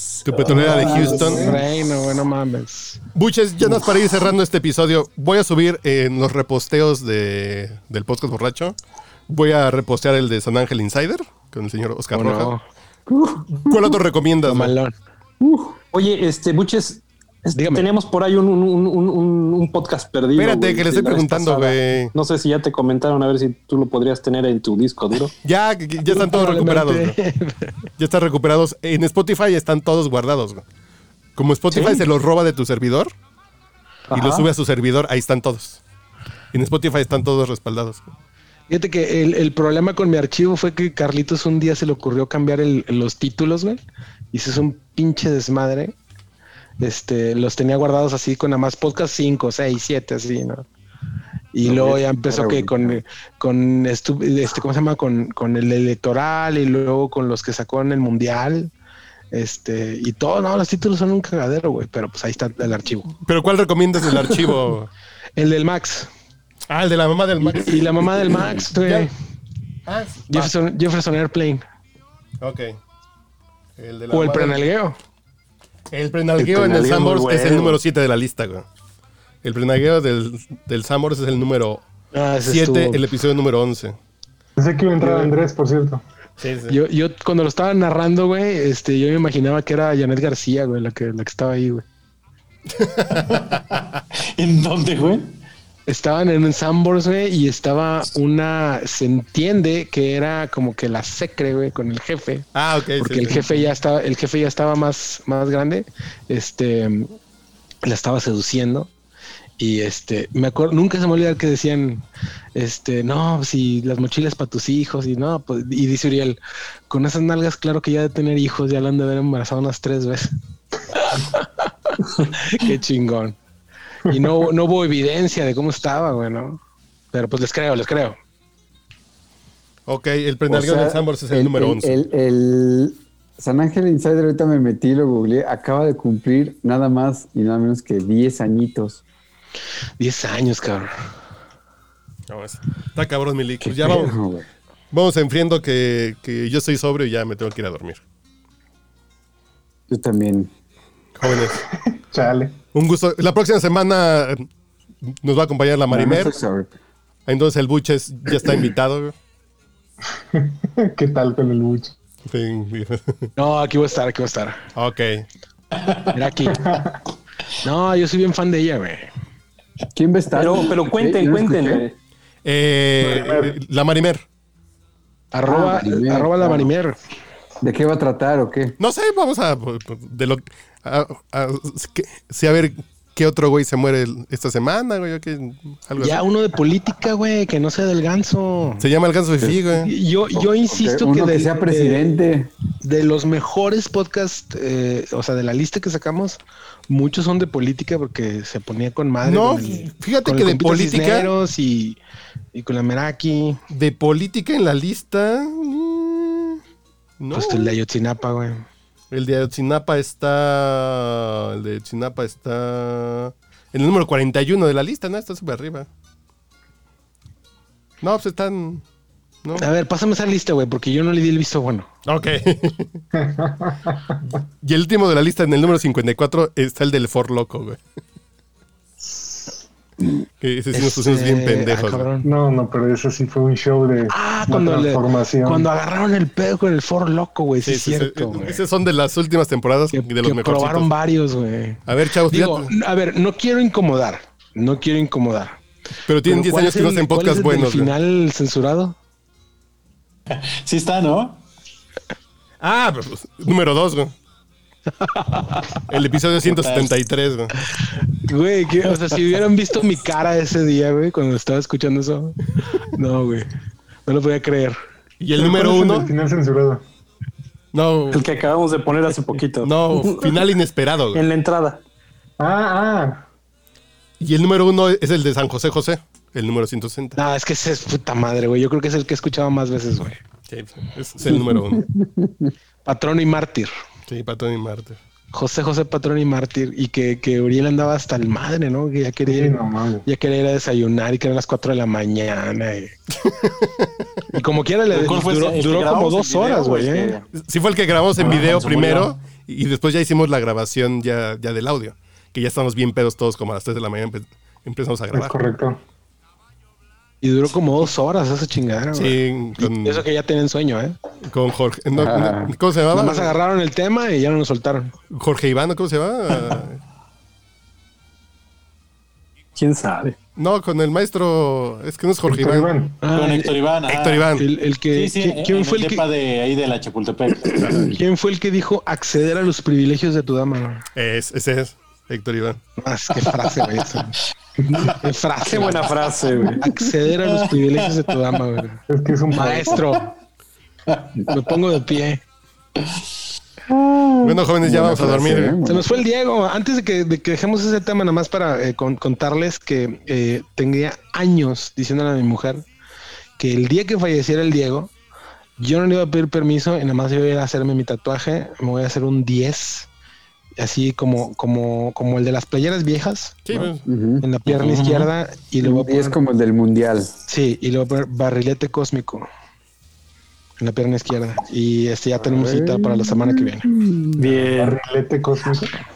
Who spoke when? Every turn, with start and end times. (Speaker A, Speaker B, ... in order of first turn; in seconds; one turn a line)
Speaker A: 0.2-1.6
Speaker B: 0.4-1.6
Speaker C: 0.4-1.6
Speaker D: 0.5-3.0
Speaker A: 3.1-8.8
Speaker A: 9.3-12.6
Speaker D: 12.1-12.6
Speaker C: 13.1-13.9
Speaker A: 13.5-14.7
Speaker D: 14.4-14.9
Speaker C: 15.4-15.7
Speaker E: 15.9-25.3
Speaker D: 17.5-17.9
Speaker A: 20.4-22.1
Speaker A: 25.4-27.2
Speaker D: 26.1-27.7
Speaker A: 28.0-30.6
Speaker A: 31.4-33.1
Speaker E: 31.7-32.0
Speaker D: 34.1-34.5
Speaker A: 34.1-35.8
Speaker A: 36.5-38.1
Speaker D: 38.7-43.8
Speaker D: 44.3-46.0
Speaker D: 46.8-50.6
Speaker D: 51.5-58.7
Speaker C: 51.6-53.0
Speaker D: 59.3-63.1
Speaker A: 63.2-64.9
Speaker D: 65.4-66.1
Speaker A: 66.7-69.1
Speaker D: 67.5-69.1
Speaker A: 69.9-70.5
Speaker D: 70.3-71.6
Speaker A: 72.4-72.7
Speaker A: 73.8-74.6
Speaker D: 74.1-74.9
Speaker A: 75.9-78.7
Speaker E: 76.4-77.8
Speaker A: 79.4-81.8
Speaker D: 82.1-83.0
Speaker A: 82.4-84.0
Speaker B: 84.6-86.0
Speaker D: 85.0-85.3
Speaker A: 86.4-86.8
Speaker D: 86.7-91.8
Speaker A: 92.7-93.8
Speaker F: 93.2-93.8
Speaker F: 94.4-95.3
Speaker D: 95.9-102.5
Speaker A: 102.5-103.5
Speaker D: 103.0-107.2
Speaker D: 107.8-108.9
Speaker D: 109.6-116.4
Speaker D: 116.9-120.3
Speaker D: 120.9-123.4
Speaker D: 124.1-126.6
Speaker D: 127.1-128.2
Speaker A: 129.9-131.9
Speaker C: 130.5-139.0
Speaker D: 140.0-140.9
Speaker A: 142.3-144.2
Speaker C: 143.6-144.4
Speaker A: 144.9-148.0
Speaker C: 149.9-150.5
Speaker A: 151.2-151.6
Speaker B: 151.2-152.6
Speaker A: 152.7-154.5
Speaker A: 155.1-156.3
Speaker C: 155.9-156.7
Speaker A: 157.3-159.1
Speaker B: 160.3-161.9
Speaker A: 162.3-163.3
Speaker D: 163.4-164.6
Speaker A: 164.8-165.2
Speaker D: 166.1-166.7
Speaker B: 166.4-167.0
Speaker D: 167.6-169.1
Speaker C: 169.9-171.8
Speaker E: 170.3-171.9
Speaker A: 172.4-174.2
Speaker B: 173.0-173.6
Speaker D: 175.3-176.9
Speaker C: 175.4-176.7
Speaker C: 177.6-178.8
Speaker A: 178.8-186.2
Speaker D: 186.0-188.9
Speaker A: 188.8-189.9
Speaker D: 189.7-192.3
Speaker C: 190.3-192.5
Speaker D: 192.8-202.0
Speaker A: 199.2-201.3
Speaker D: 202.5-203.6
Speaker A: 203.7-206.6
Speaker A: 207.2-207.7
Speaker D: 207.3-208.7
Speaker A: 209.1-215.9
Speaker A: 218.0-218.8
Speaker D: 219.6-221.9
Speaker A: 222.1-223.0
Speaker B: 223.1-224.2
Speaker A: 224.6-227.8
Speaker B: 229.0-229.6
Speaker A: 230.4-232.1
Speaker D: 230.7-232.3
Speaker B: 232.2-235.7
Speaker D: 234.1-238.6
Speaker A: 237.6-240.9
Speaker D: 239.9-245.6
Speaker A: 241.9-242.7
Speaker A: 246.1-247.9
Speaker D: 246.2-248.9
Speaker F: 250.3-251.4
Speaker A: 252.6-254.1
Speaker D: 255.0-255.8
Speaker A: 255.9-257.5
Speaker F: 256.4-256.9
Speaker D: 257.7-263.5
Speaker D: 264.1-264.8
Speaker A: 265.2-266.1
Speaker B: 265.3-266.8
Speaker A: 267.7-268.3
Speaker E: 268.1-270.5
Speaker A: 269.6-271.2
Speaker E: 271.1-271.8
Speaker B: 272.4-273.2
Speaker A: 274.2-277.2
Speaker D: 277.1-280.2
Speaker A: 280.5-281.8
Speaker C: 281.2-282.5
Speaker D: 282.8-283.7
Speaker A: 284.1-285.0
Speaker D: 285.3-292.9
Speaker B: 289.3-290.1
Speaker A: 293.2-294.2
Speaker D: 294.3-297.2
Speaker F: 294.9-297.3
Speaker A: 297.3-305.3
Speaker B: 298.2-298.6
Speaker F: 298.2-299.1
Speaker B: 305.1-305.8
Speaker D: 307.2-310.9
Speaker A: 308.9-310.0
Speaker A: 311.2-313.4
Speaker C: 311.9-312.5
Speaker D: 312.9-314.9
Speaker A: 315.1-316.8
Speaker E: 319.6-320.2
Speaker A: 320.4-322.7
Speaker B: 322.2-323.0
Speaker D: 323.0-323.6
Speaker F: 323.1-324.3
Speaker A: 323.9-324.4
Speaker D: 324.4-326.0
Speaker F: 324.9-327.9
Speaker D: 327.6-330.8
Speaker A: 330.9-332.6
Speaker D: 332.8-334.2
Speaker D: 334.7-335.9
Speaker E: 335.4-336.6
Speaker D: 336.6-340.1
Speaker F: 337.2-337.9
Speaker B: 338.9-339.9
Speaker D: 341.3-342.2
Speaker A: 344.2-345.6
Speaker C: 344.6-346.0
Speaker D: 345.6-352.7
Speaker D: 353.4-354.9
Speaker D: 355.6-359.9
Speaker D: 360.6-366.2
Speaker A: 363.4-363.8
Speaker C: 363.8-364.2
Speaker F: 364.4-365.1
Speaker C: 365.6-367.1
Speaker D: 367.3-369.3
Speaker D: 370.6-373.7
Speaker C: 372.2-374.3
Speaker B: 374.2-375.8
Speaker E: 374.2-374.8